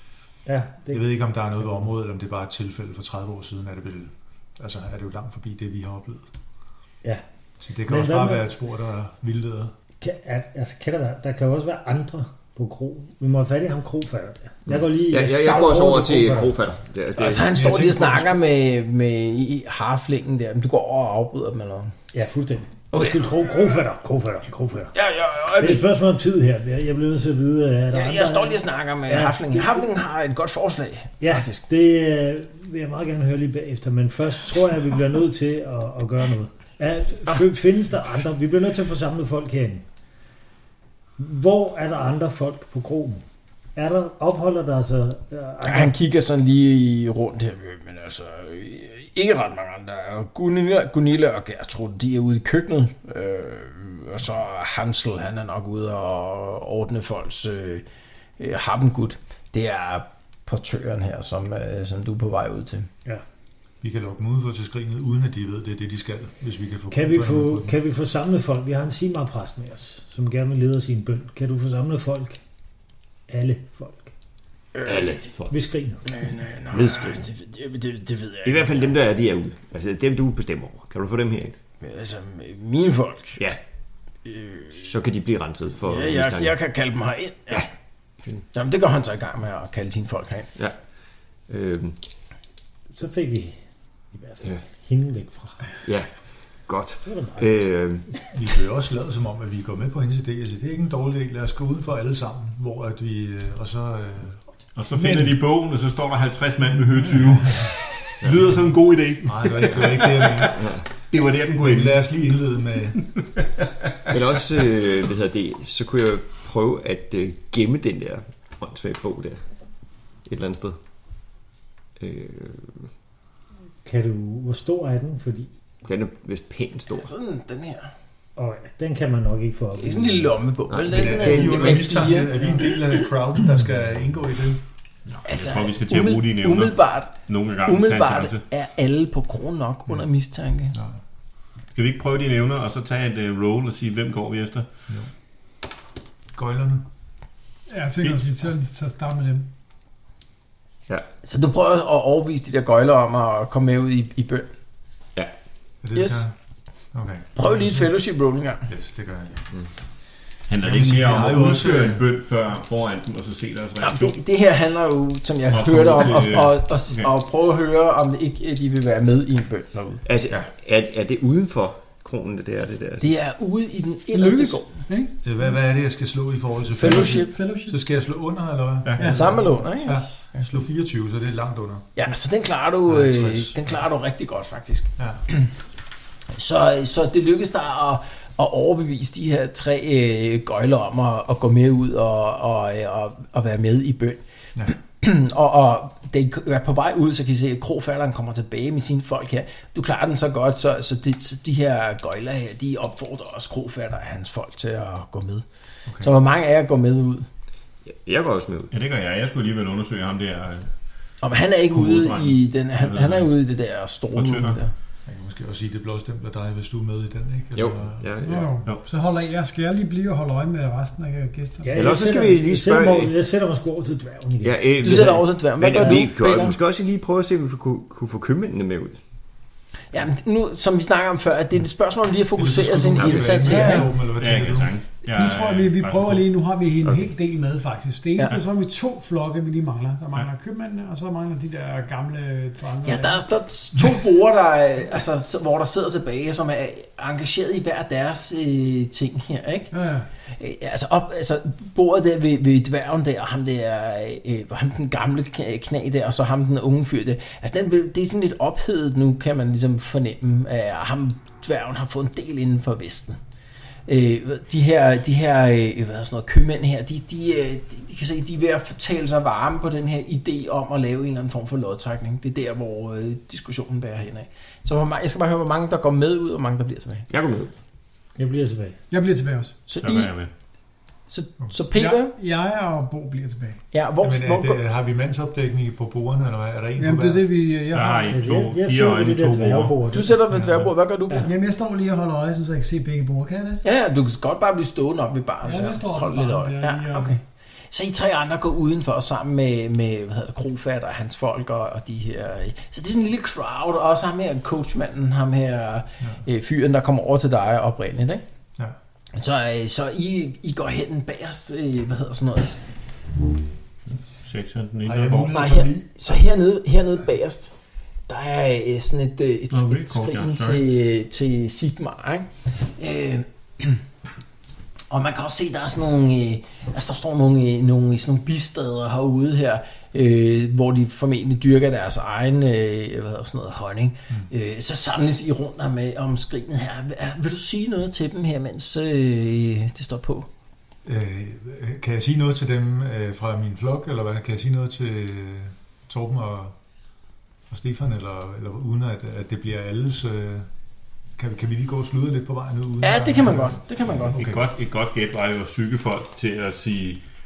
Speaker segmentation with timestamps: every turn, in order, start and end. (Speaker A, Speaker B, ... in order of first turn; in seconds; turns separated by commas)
Speaker A: 0.5-1.9, Speaker B: 0.9-6.3, Speaker B: 7.6-9.7, Speaker A: 7.8-8.5, Speaker A: 10.0-16.6, Speaker C: 14.7-17.5, Speaker D: 17.1-21.9, Speaker B: 17.5-18.4, Speaker A: 22.1-24.9, Speaker D: 22.9-23.6, Speaker D: 24.9-25.9, Speaker A: 25.6-29.9, Speaker D: 27.9-31.6, Speaker A: 31.2-39.8, Speaker A: 41.2-43.2, Speaker A: 43.8-45.9, Speaker D: 45.6-57.8, Speaker D: 58.4-62.9, Speaker B: 63.8-67.7, Speaker A: 66.9-72.4, Speaker A: 73.3-74.1, Speaker D: 74.8-75.3, Speaker C: 74.8-75.6, Speaker A: 75.5-76.1, Speaker D: 76.1-78.9, Speaker C: 76.7-77.3, Speaker C: 78.4-81.6, Speaker D: 81.8-83.4, Speaker D: 84.3-84.8, Speaker C: 84.7-86.6, Speaker D: 85.9-87.7, Speaker D: 88.5-90.5, Speaker C: 91.5-92.0, Speaker A: 92.9-93.6, Speaker A: 94.1-95.7, Speaker C: 96.7-98.1, Speaker A: 97.0-97.5, Speaker B: 98.3-104.4, Speaker E: 104.8-112.0, Speaker B: 104.9-105.3, Speaker B: 109.2-110.8, Speaker B: 111.6-113.0, Speaker E: 113.2-113.5, Speaker C: 114.1-119.4, Speaker C: 120.3-120.8, Speaker C: 122.0-122.9, Speaker A: 123.8-125.5, Speaker C: 125.8-127.1, Speaker D: 126.9-127.9, Speaker A: 128.4-130.3, Speaker D: 129.8-132.8, Speaker C: 130.7-132.1, Speaker B: 130.9-134.6, Speaker D: 135.2-140.8, Speaker E: 135.3-138.4, Speaker E: 141.8-144.7, Speaker B: 146.3-146.9, Speaker F: 147.7-149.5, Speaker D: 151.2-154.5, Speaker B: 155.8-156.3, Speaker D: 155.9-156.2, Speaker B: 156.9-157.9, Speaker D: 157.4-158.7, Speaker B: 158.7-159.5, Speaker E: 160.5-164.2, Speaker B: 160.6-162.0, Speaker D: 163.8-170.0, Speaker E: 165.5-167.1, Speaker C: 170.1-173.1, Speaker D: 173.0-174.7, Speaker F: 174.1-175.2, Speaker B: 175.2-181.9, Speaker D: 176.8-177.3, Speaker F: 176.8-177.8, Speaker E: 178.8-179.3, Speaker F: 179.0-179.4, Speaker D: 179.0-180.5, Speaker D: 182.0-185.5, Speaker B: 182.9-183.6, Speaker D: 186.3-194.2, Speaker D: 194.9-205.4, Speaker D: 206.0-207.3, Speaker C: 207.9-208.7, Speaker E: 208.7-210.7, Speaker D: 211.2-214.7, Speaker E: 211.7-213.3, Speaker E: 214.2-214.6, Speaker B: 215.1-218.4, Speaker C: 217.6-218.5, Speaker F: 218.2-221.9, Speaker A: 221.6-225.1, Speaker C: 221.7-223.1, Speaker C: 224.4-229.0, Speaker D: 224.8-226.6, Speaker D: 229.9-233.9, Speaker B: 232.4-234.7, Speaker C: 233.0-233.5, Speaker F: 233.5-233.8, Speaker E: 234.2-236.2, Speaker F: 235.1-243.2, Speaker D: 242.8-249.7, Speaker F: 249.7-250.1, Speaker D: 250.3-263.2, Speaker D: 263.9-277.1, Speaker C: 277.1-277.5, Speaker A: 278.2-278.8, Speaker F: 278.9-279.6, Speaker D: 279.7-280.1, Speaker E: 279.8-280.3, Speaker D: 281.1-282.1, Speaker F: 281.7-283.6, Speaker D: 283.7-284.6, Speaker B: 284.0-287.3, Speaker F: 286.8-288.2, Speaker E: 287.7-289.8, Speaker A: 288.1-290.2, Speaker D: 289.9-291.3, Speaker B: 290.3-290.7, Speaker F: 291.2-293.6, Speaker D: 293.6-297.2, Speaker F: 295.4-297.2, Speaker D: 297.7-308.2, Speaker D: 309.1-312.6, Speaker E: 314.2-315.6, Speaker B: 314.9-315.9, Speaker D: 315.3-317.5, Speaker D: 318.1-323.8, Speaker E: 319.5-320.6, Speaker D: 324.9-340.3, Speaker B: 340.9-346.6, Speaker B: 347.5-350.5, Speaker B: 351.2-354.4, Speaker D: 352.8-354.2, Speaker E: 354.2-357.0